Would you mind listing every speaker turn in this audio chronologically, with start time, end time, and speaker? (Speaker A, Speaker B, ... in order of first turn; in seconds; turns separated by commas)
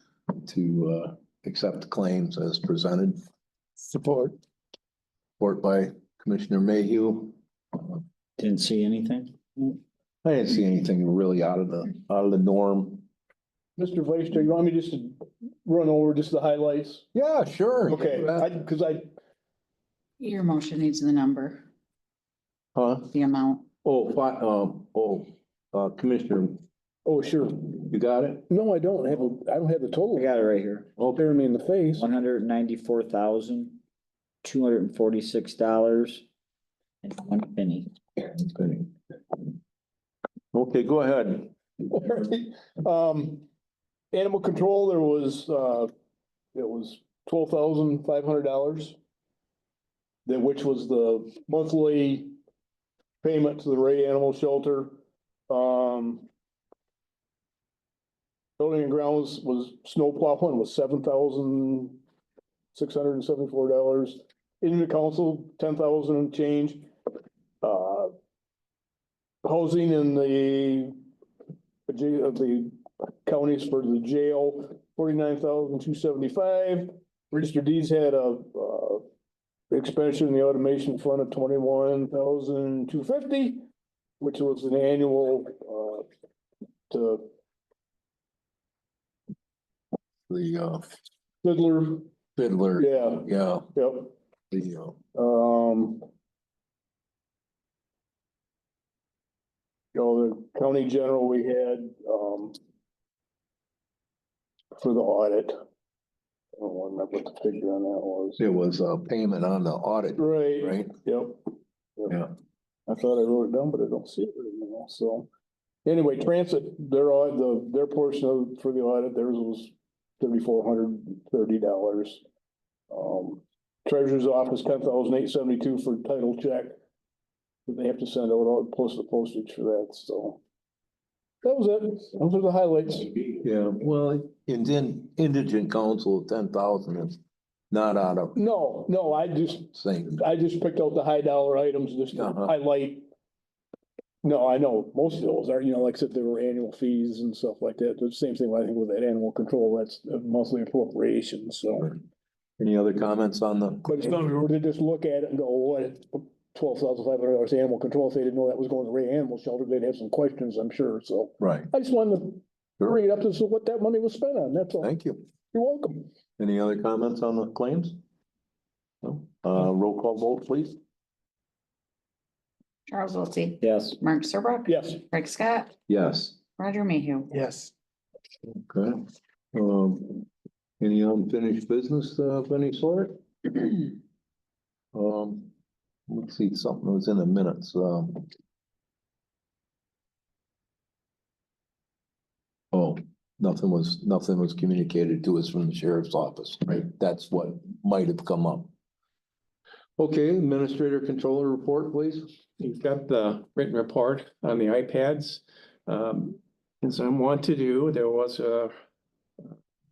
Speaker A: 0.3-3.2, Speaker A: 5.4-7.3, Speaker B: 8.4-9.7, Speaker A: 10.2-13.1, Speaker C: 13.9-15.2, Speaker C: 15.7-17.0, Speaker A: 17.1-18.5, Speaker C: 17.9-19.1, Speaker D: 20.2-21.7, Speaker A: 22.8-23.1, Speaker D: 23.1-23.7, Speaker A: 23.8-26.6, Speaker C: 27.1-27.5, Speaker A: 27.7-28.5, Speaker C: 28.5-30.2, Speaker B: 30.1-31.0, Speaker A: 31.0-31.2, Speaker C: 31.2-32.0, Speaker B: 32.0-33.8, Speaker B: 34.4-36.2, Speaker B: 37.0-37.9, Speaker A: 38.3-38.9, Speaker A: 40.5-41.5, Speaker C: 41.9-43.4, Speaker C: 44.1-45.9, Speaker C: 46.6-48.9, Speaker C: 50.3-52.3, Speaker C: 53.2-54.9, Speaker C: 55.5-56.2, Speaker C: 58.6-62.0, Speaker C: 62.8-66.8, Speaker C: 67.6-68.1, Speaker C: 69.5-70.9, Speaker C: 71.9-79.0, Speaker C: 79.7-83.6, Speaker C: 84.2-86.0, Speaker C: 86.9-87.3, Speaker A: 90.3-90.9, Speaker C: 91.5-92.1, Speaker A: 92.4-93.7, Speaker C: 92.8-93.2, Speaker C: 93.8-94.1, Speaker A: 94.5-95.0, Speaker C: 95.2-96.0, Speaker C: 100.0-102.5, Speaker C: 104.8-105.5, Speaker C: 106.6-108.4, Speaker A: 108.4-111.0, Speaker C: 110.2-111.4, Speaker C: 113.0-115.3, Speaker C: 115.9-119.7, Speaker C: 120.2-122.2, Speaker C: 122.9-126.7, Speaker C: 127.7-130.4, Speaker C: 131.4-133.1, Speaker A: 133.4-137.2, Speaker A: 137.7-138.4, Speaker C: 138.4-139.7, Speaker A: 139.7-140.2, Speaker C: 140.2-143.0, Speaker A: 142.1-142.5, Speaker C: 144.2-151.8, Speaker A: 152.6-154.1, Speaker C: 153.9-164.8, Speaker A: 161.4-161.7, Speaker A: 164.8-165.2, Speaker C: 165.5-165.9, Speaker A: 166.4-168.0, Speaker A: 169.0-170.8, Speaker D: 172.9-175.8, Speaker B: 173.6-173.9, Speaker A: 175.9-176.4, Speaker D: 176.6-177.4, Speaker A: 178.5-180.3, Speaker A: 180.8-183.8, Speaker A: 184.9-185.5, Speaker A: 186.1-188.3, Speaker A: 192.7-198.7, Speaker A: 200.0-202.3, Speaker E: 202.6-208.7